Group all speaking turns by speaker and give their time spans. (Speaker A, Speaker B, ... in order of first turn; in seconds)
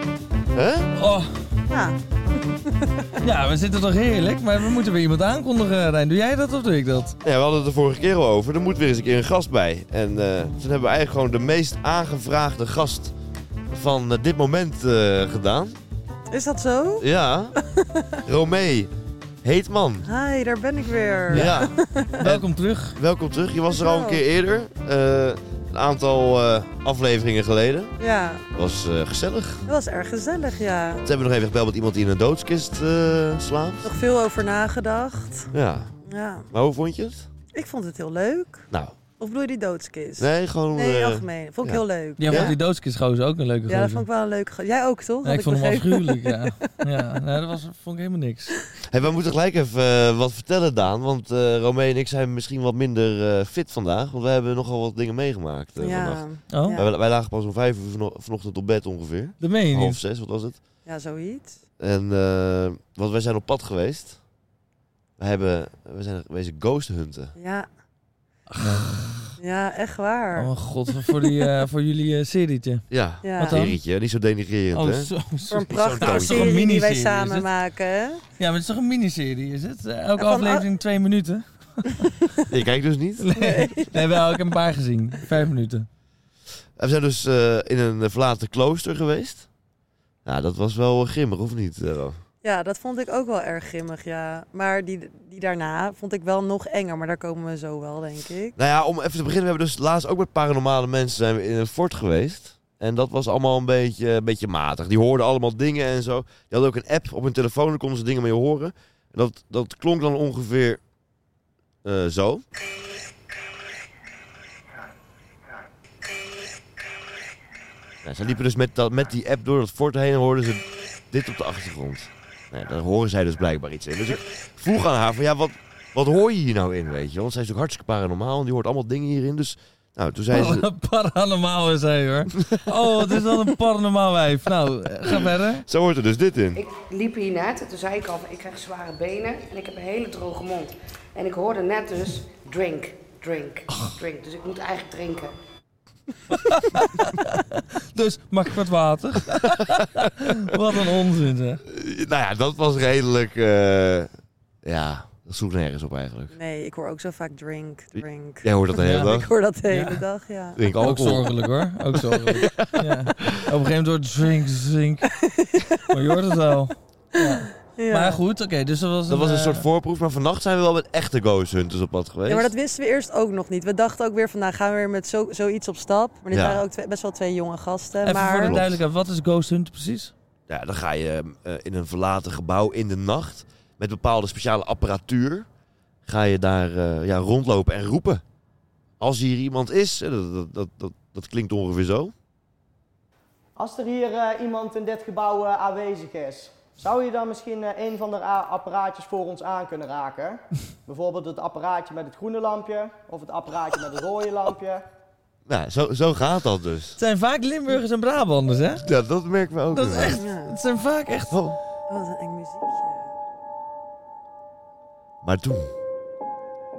Speaker A: 0.5-0.9, 7.2-13.1, 13.7-15.8, 17.0-17.5, 18.2-18.9, 19.4-20.1, 21.3-27.9, 28.5-29.6, 31.0-33.9, 35.5-35.9, 36.5-37.3, 40.2-42.5, 48.8-60.5, 61.8-64.2, 65.2-67.3, 72.9-75.1, 75.7-76.5, 82.5-83.3, 86.8-89.5, 90.2-92.2, 98.5-110.8, 111.8-112.4, 118.0-130.7, 132.4-132.8, 135.7-136.6, 149.3-150.6, 151.7-154.1, 154.6-156.3, 157.9-159.3, 160.6-161.3, 161.9-163.5, 169.1-172.5, 176.3-176.6, 178.3-178.8, 180.5-185.5, 186.1-188.2, 189.0-192.1, 205.4-207.0, 208.8-210.2, 211.3-211.6, 215.2-215.7
Speaker B: 0.9-1.3, 3.2-7.2, 21.3-23.0, 42.2-44.0, 45.2-48.6, 56.5-56.8, 59.4-60.0, 68.5-69.3, 70.3-73.8, 74.7-77.5, 78.4-82.1, 83.2-85.9, 130.3-135.6, 146.3-151.6, 158.7-160.0, 160.8-165.1, 165.8-169.6, 178.0-180.1, 207.0-208.8, 209.7-211.4
Speaker C: 1.7-3.2, 16.3-18.2, 20.0-22.2, 23.7-24.2, 28.0-28.4, 29.6-31.0, 33.8-35.5, 36.0-36.5, 37.5-38.7, 39.2-42.6, 43.7-46.7, 55.8-56.9, 60.9-61.6, 67.4-67.7, 69.4-70.5, 71.1-71.4, 73.2-73.6, 75.5-78.2, 80.2-80.6, 83.3-84.2, 92.4-98.5, 156.3-158.4, 159.0-160.6, 165.1-166.0, 167.2-168.2, 172.3-178.6, 210.2-210.5, 211.9-213.0
Speaker D: 136.6-145.3
Speaker E: 193.6-204.8